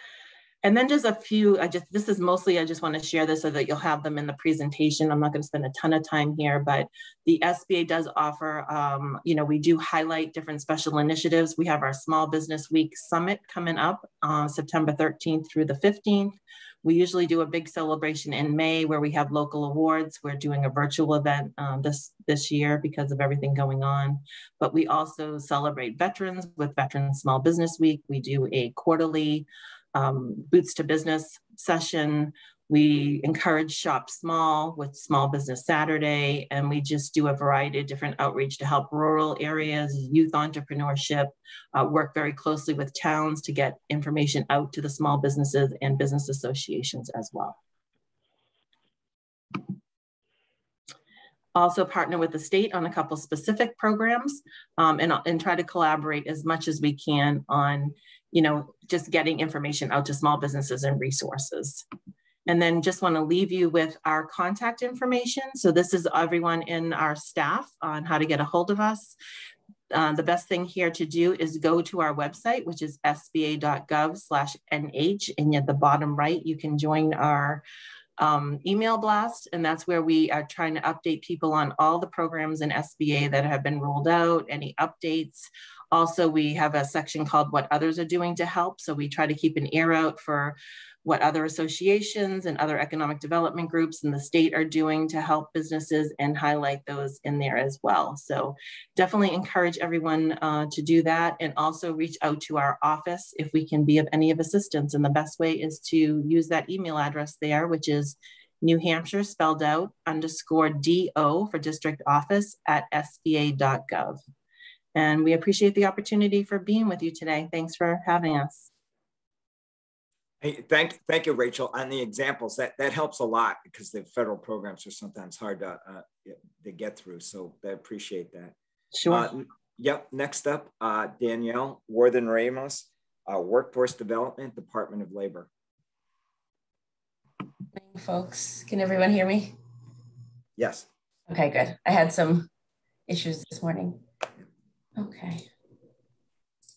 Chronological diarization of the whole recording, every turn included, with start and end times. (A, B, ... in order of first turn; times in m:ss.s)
0:00.6-0:47.6 A
0:51.5-1:01.8 A
1:02.5-1:09.2 A
1:09.9-1:17.6 A
1:18.2-1:54.2 A
1:54.9-1:58.7 A
2:00.4-2:08.5 B
2:08.9-2:09.3 A
2:09.1-2:15.5 B
2:17.8-2:19.6 C
2:20.6-2:20.9 B
2:21.3-2:22.5 C
2:23.1-2:24.0 C
2:25.0-2:25.5 C